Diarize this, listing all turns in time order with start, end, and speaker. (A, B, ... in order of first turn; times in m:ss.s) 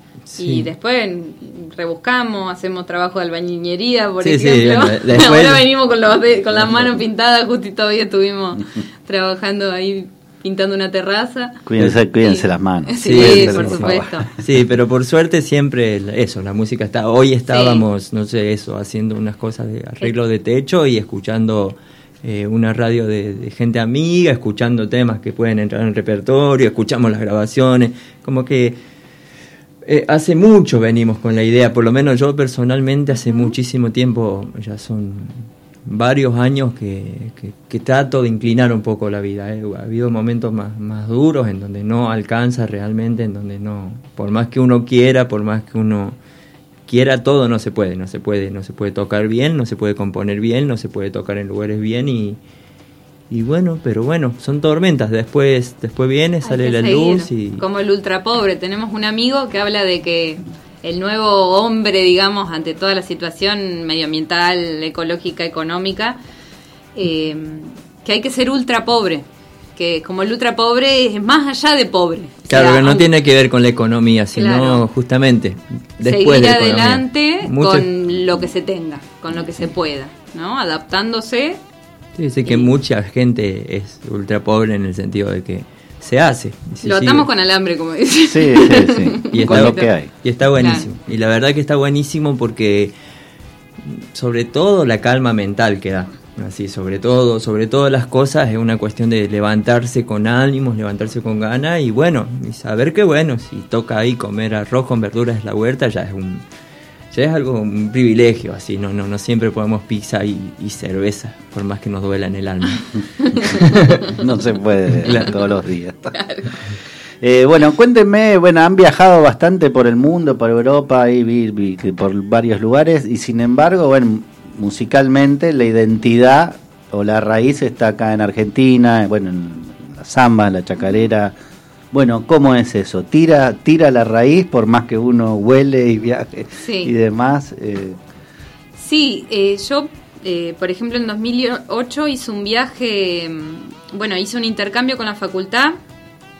0:00.3-0:00.7 A
0:00.4-0:14.3 B
0:04.2-0:05.8 A
0:06.5-0:06.9 A
0:11.6-0:14.3 C
0:13.0-0:28.8 A
0:17.5-0:17.8 B
0:29.8-0:46.2 A
0:33.1-0:33.5 B
0:46.9-0:52.4 A
0:53.3-0:57.6 A
0:56.4-1:06.2 B
1:07.0-1:13.0 B
1:12.4-1:17.9 A
1:14.4-1:14.8 B
1:16.0-1:21.6 B
1:19.3-1:19.6 C
1:22.1-1:27.3 A
1:22.4-1:22.7 B
1:26.8-1:29.9 B
1:28.2-1:30.1 C
1:29.3-1:32.9 A
1:30.6-1:30.9 B
1:33.9-1:46.4 A
1:47.1-1:52.8 A
1:53.0-1:53.6 C
1:53.5-1:54.0 A
1:54.2-1:56.2 C
1:55.0-1:55.3 A
1:56.1-1:56.4 B
1:57.2-2:11.3 C
2:11.9-2:18.0 C
2:16.6-2:16.9 B
2:18.7-2:25.8 B